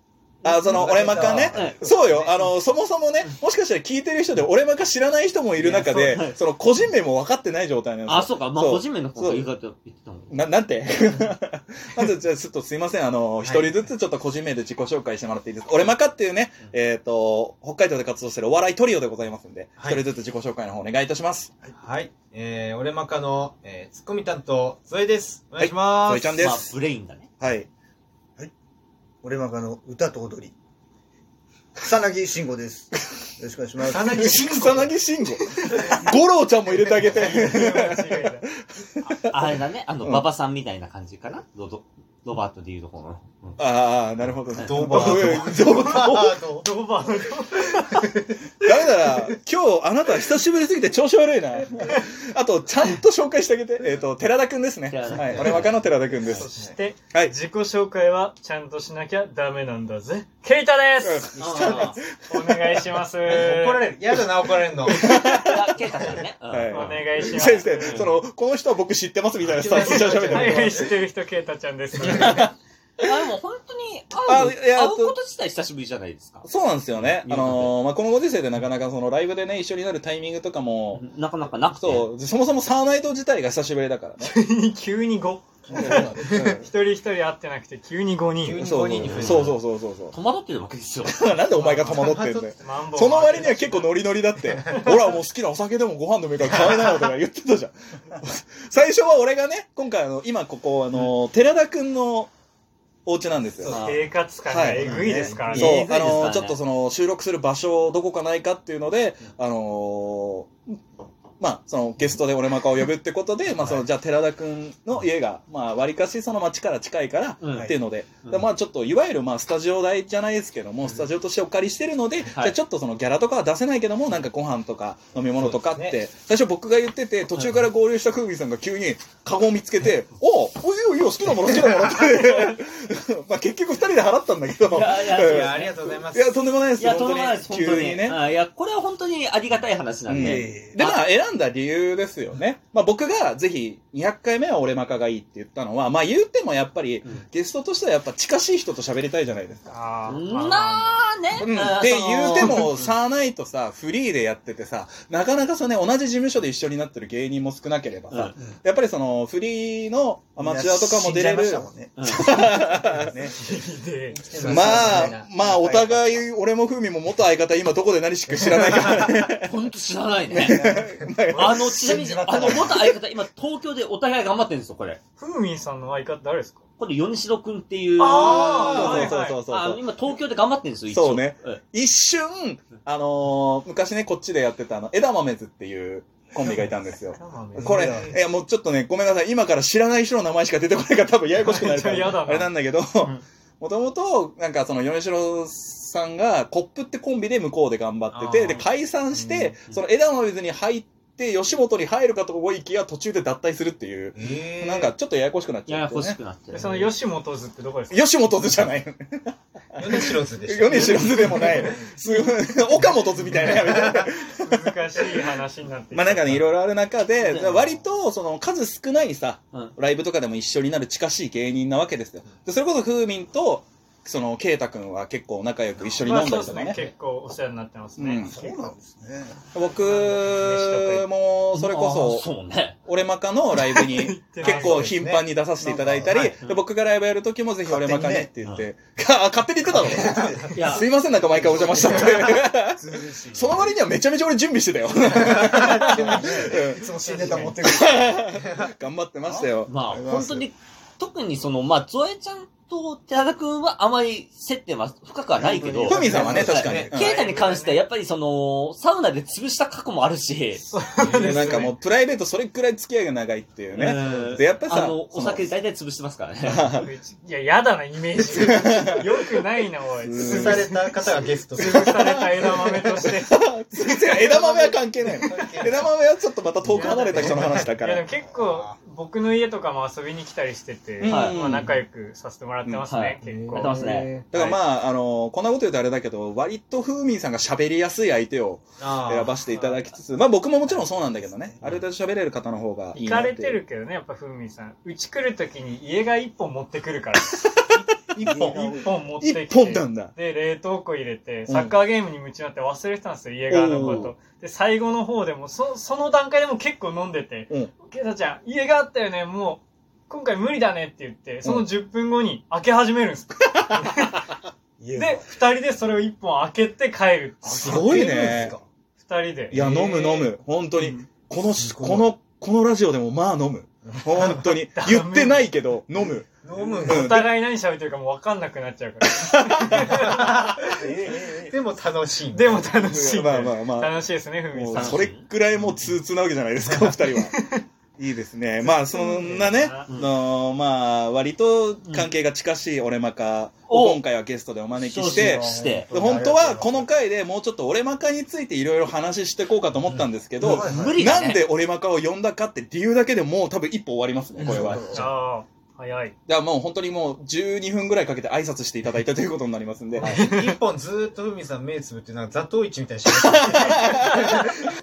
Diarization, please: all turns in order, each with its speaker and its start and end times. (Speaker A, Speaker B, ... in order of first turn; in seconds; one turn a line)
Speaker A: 0.4-2.5
Speaker B: 0.4-9.5
Speaker C: 0.6-1.8
Speaker D: 1.5-1.8
Speaker D: 5.5-6.4
Speaker D: 8.1-10.4
Speaker B: 10.3-21.6
Speaker A: 13.4-13.9
Speaker A: 19.8-20.0
Speaker A: 21.8-26.6
Speaker B: 25.6-26.7
Speaker D: 26.4-27.3
Speaker B: 27.4-27.7
Speaker C: 29.2-30.5
Speaker C: 31.8-34.2
Speaker A: 33.8-35.0
Speaker B: 34.1-35.4
Speaker E: 35.5-36.0
Speaker B: 36.0-40.2
Speaker E: 36.8-38.5
Speaker D: 39.1-43.6
Speaker B: 43.6-46.4
Speaker D: 44.5-46.3
Speaker A: 44.6-46.7
Speaker E: 46.6-48.0
Speaker A: 47.7-49.4
Speaker B: 48.6-56.4
Speaker D: 54.9-56.4
Speaker A: 55.1-55.6
Speaker E: 56.2-63.9
Speaker A: 56.4-56.7
Speaker B: 61.0-62.9
Speaker D: 61.4-62.0
Speaker A: 61.4-61.6
Speaker A: 63.2-65.5
Speaker B: 64.8-65.7
Speaker D: 64.9-68.1
Speaker B: 66.5-70.9
Speaker E: 66.7-68.0
Speaker A: 69.4-70.9
Speaker E: 69.8-72.5
Speaker A: 71.9-72.4
Speaker B: 72.4-73.1
Speaker D: 73.0-77.7
Speaker B: 74.2-75.2
Speaker B: 76.4-81.0
Speaker D: 80.9-82.1
Speaker B: 81.7-84.3
Speaker E: 84.2-88.7
Speaker C: 85.7-86.4
Speaker B: 85.7-86.6
Speaker A: 86.1-86.6
Speaker A: 88.4-89.5
Speaker B: 88.6-90.2
Speaker D: 89.0-89.5
Speaker D: 90.1-91.2
Speaker B: 91.0-102.3
Speaker A: 91.6-92.6
Speaker E: 91.6-92.0
Speaker E: 92.6-94.0
Speaker A: 93.3-93.8
Speaker A: 94.4-94.8
Speaker E: 94.6-94.9
Speaker A: 96.4-97.1
Speaker B: 103.0-103.7
Speaker A: 103.7-104.0
Speaker E: 103.7-105.8
Speaker D: 103.7-104.0
Speaker B: 104.5-104.9
Speaker C: 104.8-105.5
Speaker A: 104.8-105.5
Speaker D: 105.5-106.6
Speaker B: 105.5-110.8
Speaker B: 111.4-138.2
Speaker D: 117.4-118.5
Speaker D: 122.2-122.5
Speaker A: 125.4-126.0
Speaker D: 134.7-135.7
Speaker A: 135.0-136.5
Speaker D: 136.8-141.0
Speaker B: 140.1-149.7
Speaker C: 140.2-140.8
Speaker E: 149.7-151.0
Speaker D: 150.1-152.9
Speaker B: 151.4-163.3
Speaker E: 152.2-152.6
Speaker D: 158.1-158.4
Speaker C: 160.4-162.0
Speaker D: 162.0-162.3
Speaker E: 162.8-165.1
Speaker A: 164.1-166.2
Speaker C: 164.4-164.9
Speaker B: 164.5-169.5
Speaker A: 168.4-169.0
Speaker D: 169.4-170.7
Speaker B: 170.3-171.9
Speaker C: 170.5-171.0
Speaker D: 171.3-175.0
Speaker E: 171.4-171.6
Speaker C: 171.8-172.8
Speaker A: 172.3-172.6
Speaker E: 175.2-176.6
Speaker D: 176.8-181.6
Speaker E: 178.0-179.4
Speaker A: 178.1-179.0
Speaker B: 178.8-179.8
Speaker B: 180.9-206.2
Speaker E: 186.4-188.1
Speaker C: 187.6-188.2
Speaker A: 187.6-188.2
Speaker E: 191.3-192.5
Speaker A: 198.1-198.7
Speaker E: 199.2-199.6
Speaker A: 204.1-204.9
Speaker D: 205.7-206.9
Speaker E: 206.5-208.0
Speaker B: 207.9-214.6
Speaker A: 209.8-211.9
Speaker E: 211.4-211.7
Speaker A: 213.2-214.1
Speaker E: 214.3-216.5
Speaker B: 215.9-226.8
Speaker D: 217.2-217.7
Speaker E: 226.0-228.7
Speaker B: 228.0-228.4
Speaker C: 228.2-229.4
Speaker B: 229.5-232.3
Speaker E: 229.7-231.1
Speaker D: 231.5-232.8
Speaker B: 232.8-240.1
Speaker E: 233.5-234.9
Speaker A: 234.3-235.3
Speaker C: 235.6-236.3
Speaker D: 236.1-236.6
Speaker C: 237.7-238.3
Speaker C: 239.7-240.6
Speaker A: 240.1-240.8
Speaker D: 240.5-240.9
Speaker B: 240.7-246.8
Speaker A: 241.9-242.3
Speaker C: 242.8-243.7
Speaker A: 245.1-247.6
Speaker C: 245.7-248.4
Speaker B: 247.6-249.8
Speaker C: 249.2-250.5
Speaker D: 249.7-261.5
Speaker C: 255.4-256.9
Speaker A: 255.9-256.9
Speaker B: 255.9-257.1
Speaker E: 256.9-257.9
Speaker E: 260.6-261.7
Speaker B: 261.2-265.5
Speaker D: 263.7-266.8
Speaker B: 266.4-266.9
Speaker E: 266.7-270.8
Speaker B: 268.3-269.3
Speaker B: 270.1-270.6
Speaker A: 270.1-272.1
Speaker E: 271.6-274.5
Speaker B: 271.6-278.1
Speaker A: 274.4-275.9
Speaker A: 276.6-277.7
Speaker E: 276.7-283.9
Speaker A: 278.3-278.7
Speaker B: 281.0-281.7
Speaker D: 281.0-281.4
Speaker B: 282.6-282.9
Speaker D: 282.9-284.6
Speaker C: 283.2-284.2
Speaker B: 284.3-293.6
Speaker A: 288.8-289.4
Speaker C: 290.7-291.6
Speaker E: 292.9-297.4
Speaker A: 298.1-298.8
Speaker C: 298.2-298.9
Speaker E: 298.3-314.2
Speaker B: 299.2-300.1
Speaker B: 301.5-301.8
Speaker B: 303.5-304.1
Speaker B: 307.5-307.7
Speaker B: 311.4-311.7
Speaker C: 314.8-315.2
Speaker E: 314.9-321.1
Speaker B: 317.4-318.5
Speaker A: 317.6-318.6
Speaker B: 319.5-327.3
Speaker C: 321.6-322.1
Speaker A: 324.1-324.6
Speaker E: 324.6-325.5
Speaker A: 326.4-327.1
Speaker E: 326.9-330.9
Speaker B: 329.0-329.9
Speaker A: 329.7-332.8
Speaker C: 330.8-331.5
Speaker E: 332.3-335.1
Speaker B: 332.9-334.0
Speaker B: 334.5-337.3
Speaker D: 334.7-335.2
Speaker A: 336.6-337.0
Speaker E: 337.1-337.5
Speaker B: 338.0-354.9
Speaker E: 338.7-339.9
Speaker D: 341.8-342.1
Speaker D: 343.7-344.0
Speaker D: 344.8-345.9
Speaker C: 345.0-346.9
Speaker D: 350.4-351.4
Speaker C: 350.4-351.0
Speaker C: 354.4-355.1
Speaker D: 354.4-355.0
Speaker E: 354.9-356.1
Speaker B: 356.3-360.1
Speaker A: 360.0-364.6
Speaker E: 360.1-360.5
Speaker B: 363.1-364.5